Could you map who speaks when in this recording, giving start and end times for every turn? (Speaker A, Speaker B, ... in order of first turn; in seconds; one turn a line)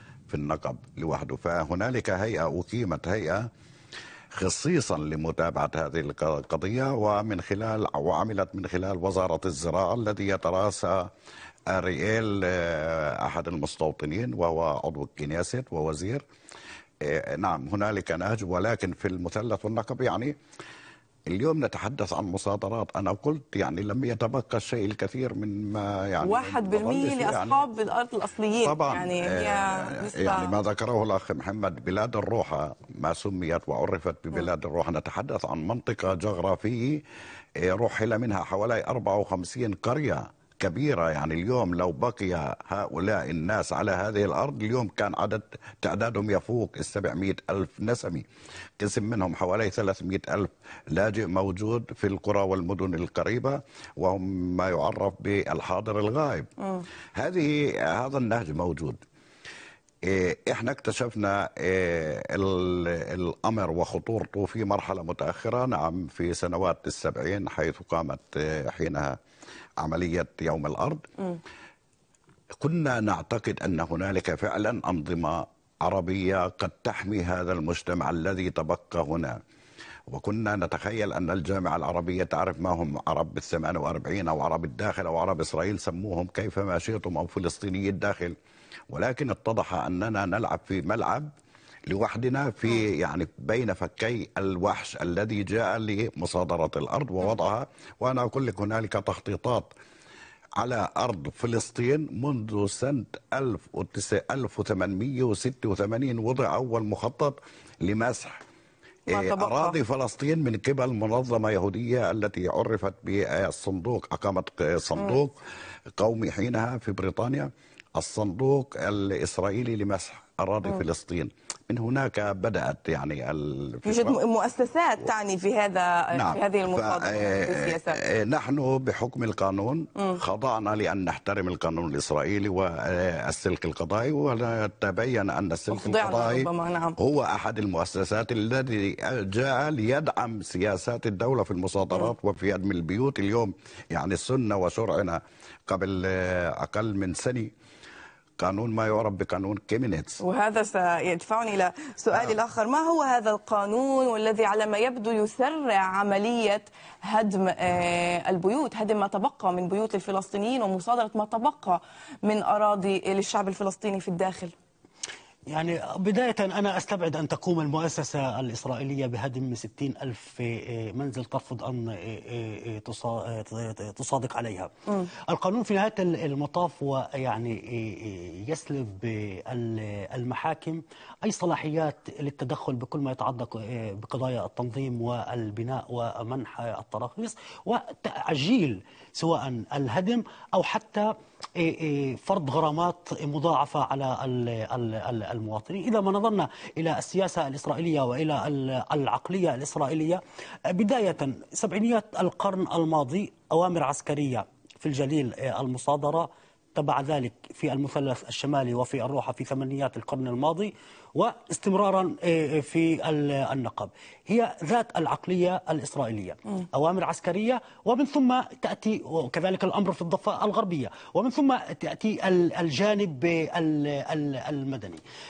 Speaker A: 0.3-3.5
Speaker A: 4.3-11.1
Speaker A: 11.7-16.2
Speaker A: 17.0-20.3
Speaker A: 21.3-27.6
Speaker B: 26.2-30.5
Speaker A: 28.6-37.0
Speaker A: 37.6-48.2
Speaker A: 48.8-56.5
Speaker A: 57.1-59.0
Speaker A: 60.0-69.2
Speaker A: 69.8-71.1
Speaker A: 72.6-79.4
Speaker A: 80.1-88.4
Speaker A: 88.9-91.3
Speaker A: 91.9-99.7
Speaker A: 100.6-108.4
Speaker B: 109.1-109.8
Speaker A: 109.1-115.4
Speaker A: 116.0-124.2
Speaker B: 123.9-128.0
Speaker A: 126.1-147.5
Speaker B: 135.7-136.9
Speaker A: 148.4-150.2
Speaker B: 150.2-164.5
Speaker C: 165.5-225.0